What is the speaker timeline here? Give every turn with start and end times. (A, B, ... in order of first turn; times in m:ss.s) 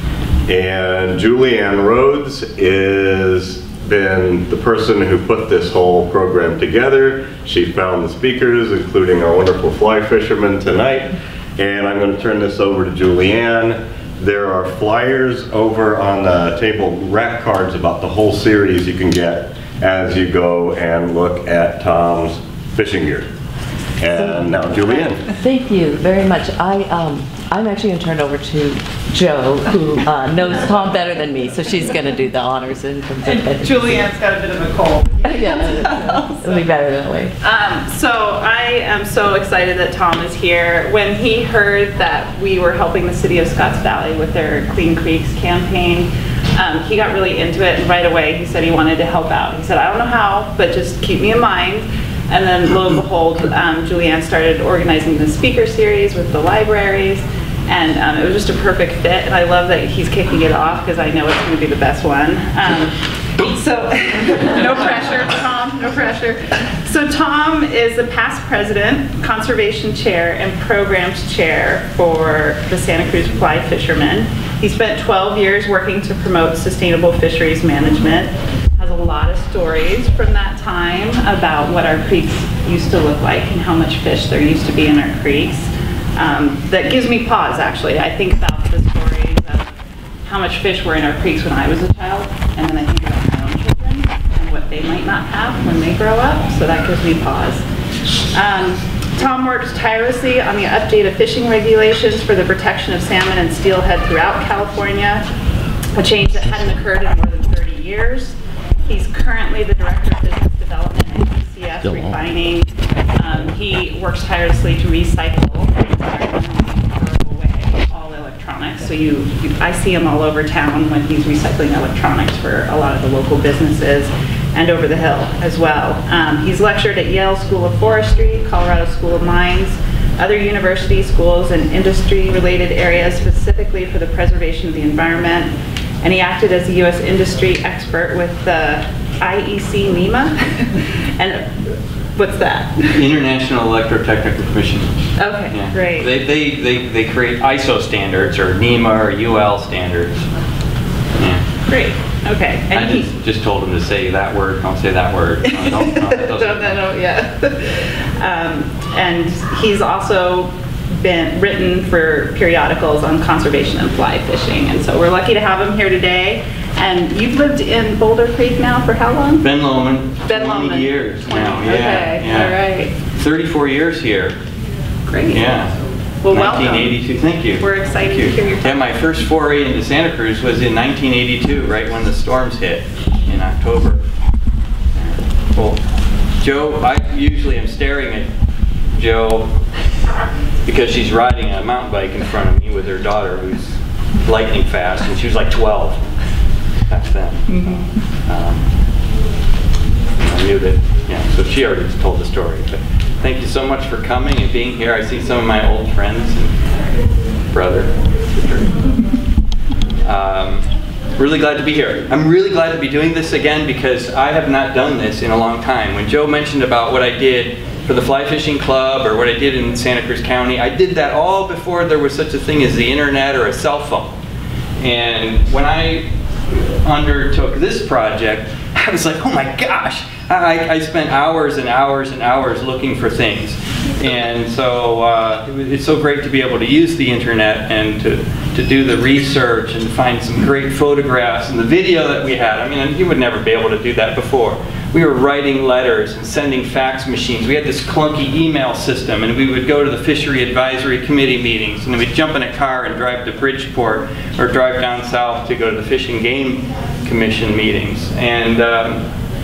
0:00.5-0:23.3 A
0:24.0-0:25.2 A
0:24.2-0:24.4 B
0:25.3-0:34.0 B
0:33.2-0:36.6 C
0:35.2-0:37.3 B
0:37.4-1:29.7 C
1:30.2-1:37.6 C
1:38.3-1:45.2 C
1:45.9-1:48.4 C
1:48.9-2:21.5 C
2:22.2-2:22.9 C
2:22.8-2:25.0 D
2:25.2-2:26.1 C
2:25.5-2:30.3 D
2:31.2-2:31.4 D
2:31.7-2:33.1 C
2:32.7-2:36.8 D
2:35.5-2:49.5 C
2:49.4-2:52.6 D
2:50.3-2:52.9 C
2:53.1-2:54.4 D
2:55.1-2:55.4 C
2:55.3-2:55.7 D
2:56.2-2:57.0 C
2:56.3-3:04.0 D
2:57.6-2:58.9 C
3:04.9-3:05.8 D
3:06.4-3:08.3 D
3:08.9-3:09.5 D
3:10.7-3:16.0 D
3:16.9-3:18.7 D
3:20.2-3:26.6 D
3:27.5-3:28.8 D
3:30.0-3:30.6 D
3:31.2-3:44.1 D
3:44.8-4:19.0 D